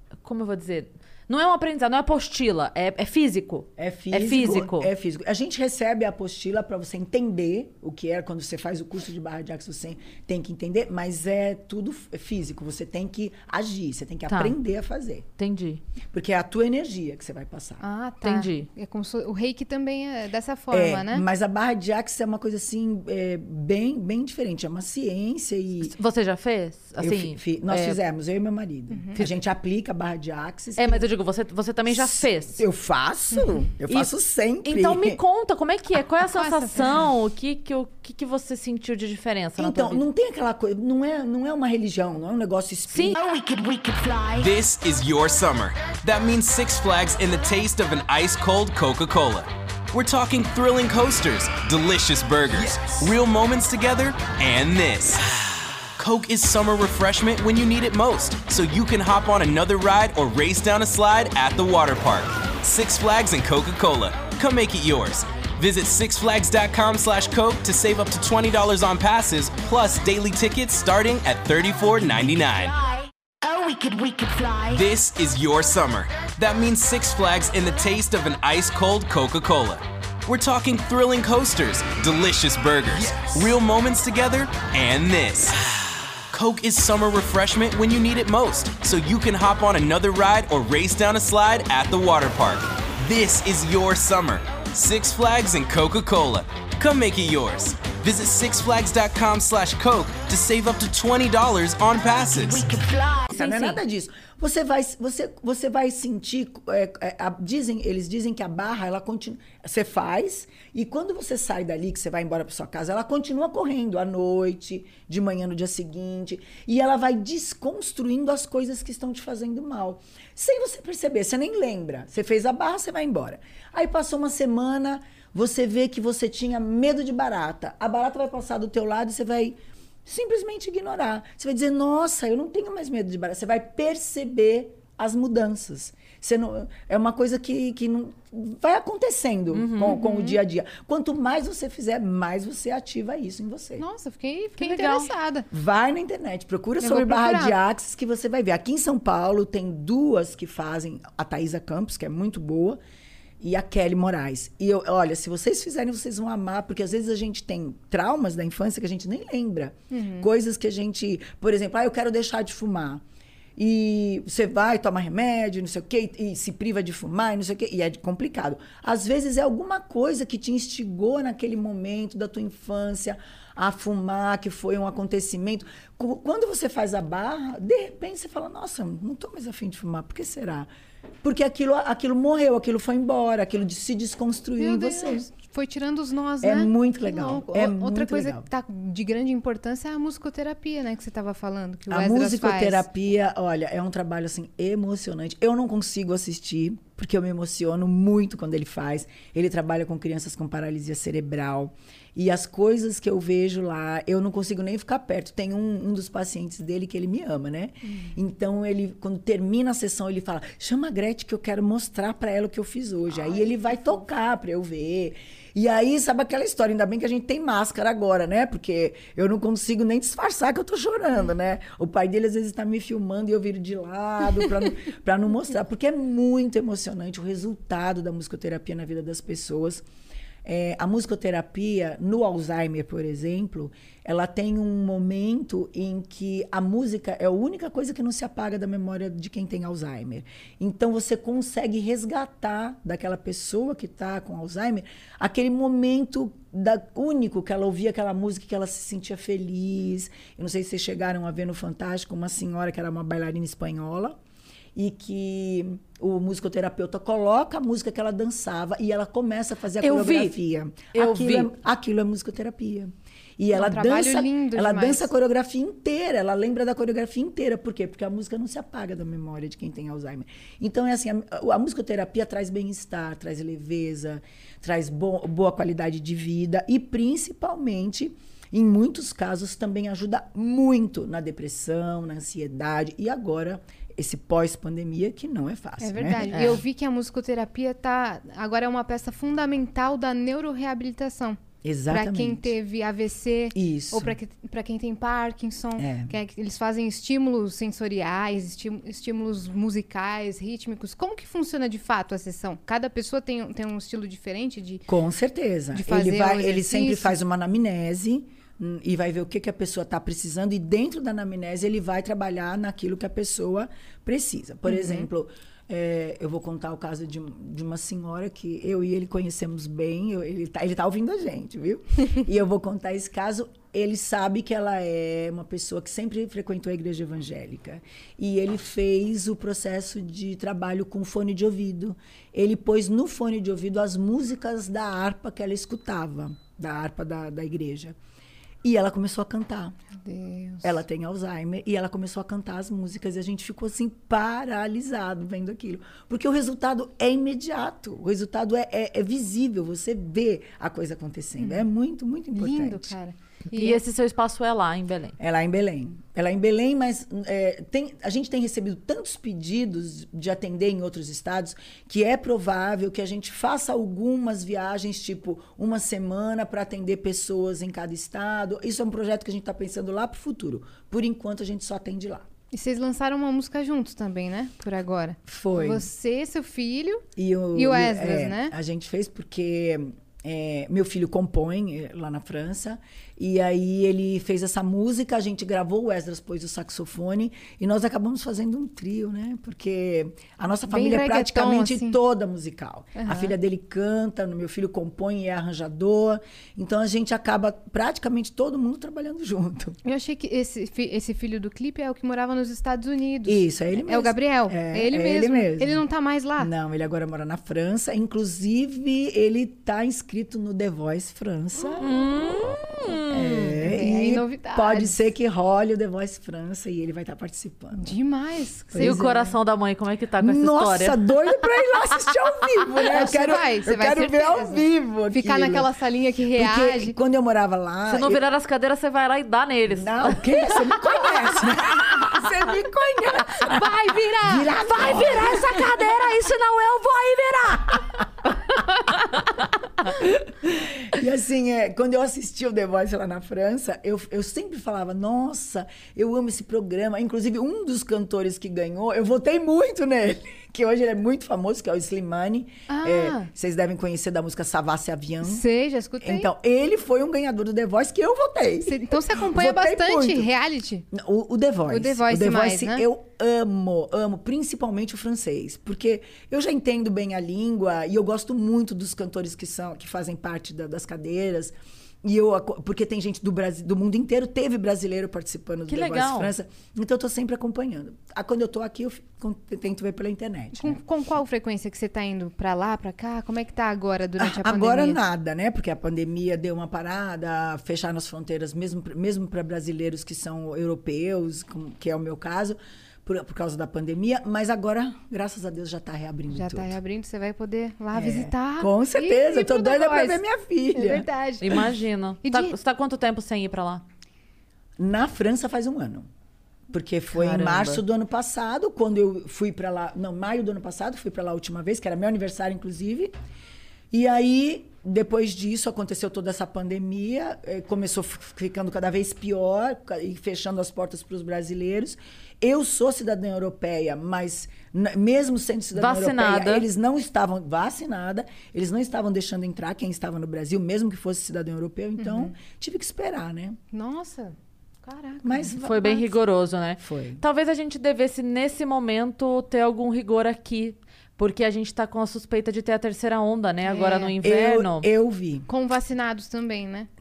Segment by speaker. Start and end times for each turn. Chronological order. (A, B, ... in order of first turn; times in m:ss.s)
0:00.2-0:04.9 A
0:03.8-0:15.3 B
0:14.3-0:14.6 A
0:15.4-0:15.8 A
0:16.1-0:17.8 B
0:17.8-0:21.2 C
0:18.2-0:18.7 A
0:20.7-0:26.0 B
0:25.8-0:28.0 A
0:27.0-0:31.1 B
0:30.8-0:32.6 A
0:31.9-0:35.2 B
0:33.9-0:34.1 A
0:34.6-0:40.1 A
0:36.3-0:37.1 C
0:39.6-0:43.3 B
0:42.9-0:43.2 A
0:44.2-1:12.8 D
1:14.6-1:42.9 D
1:43.3-2:23.8 B
1:43.3-1:43.8 A
2:19.5-2:20.0 A
2:19.8-2:20.4 C
2:23.8-2:25.5 C
2:24.6-2:25.1 A
2:25.5-2:32.8 B
2:26.8-2:27.6 C
2:33.4-2:43.0 B
2:39.9-2:40.3 C
2:43.6-3:00.7 B
3:01.2-3:05.3 B
3:04.6-3:12.8 C
3:06.4-3:08.5 B
3:11.9-3:49.8 B
3:50.4-4:14.2 B
4:14.8-4:46.6 B
4:19.8-4:20.4 A
4:20.9-4:21.5 A
4:23.5-4:25.1 C
4:45.8-5:04.8 C
4:46.3-4:46.6 A
4:51.6-4:52.5 B
4:53.5-4:54.2 B
4:55.8-4:56.1 B
5:04.9-5:38.0 B
5:05.7-5:07.2 C
5:14.7-5:15.1 C
5:38.6-5:39.8 B
5:40.0-5:40.7 C
5:40.6-5:52.9 B
5:51.4-5:51.7 C
5:52.3-5:53.8 C
5:53.5-5:55.2 A
5:55.2-6:12.3 B
6:12.5-6:18.5 C
6:15.3-6:15.9 B
6:17.2-6:39.8 B
6:30.7-6:32.0 C
6:33.0-6:33.3 C
6:39.8-6:46.5 C
6:43.3-6:45.8 B
6:46.4-6:51.9 B
6:51.8-6:53.6 A
6:53.1-6:57.9 B
6:53.6-6:55.0 C
6:57.8-6:59.2 C
6:58.7-6:59.3 B
6:58.8-7:01.1 A
7:00.2-7:05.7 B
7:02.8-7:06.9 C
7:06.3-7:08.2 B
7:07.9-7:11.4 A
7:09.7-7:15.8 B
7:13.4-7:15.0 C
7:14.6-7:17.8 A
7:19.8-7:35.4 B
7:32.7-7:33.3 C
7:35.2-7:36.3 C
7:36.0-7:40.3 B
7:38.7-7:40.9 C
7:40.9-8:00.8 B
7:41.7-7:42.8 C
7:55.7-7:56.3 A
8:00.6-8:05.0 C
8:04.2-8:16.8 B
8:16.3-8:21.7 C
8:17.9-8:21.1 B
8:21.4-8:23.8 A
8:22.2-8:22.6 C
8:24.8-8:26.1 B
8:26.7-8:33.1 B
8:27.1-8:27.8 A
8:33.9-8:53.6 B
8:45.8-8:46.7 A
8:52.0-8:52.3 C
8:53.7-8:56.0 C
8:55.2-8:56.0 B
8:55.6-9:04.9 A
8:56.8-8:57.2 B
9:03.6-9:04.2 C
9:04.2-9:05.5 B
9:05.5-9:06.9 C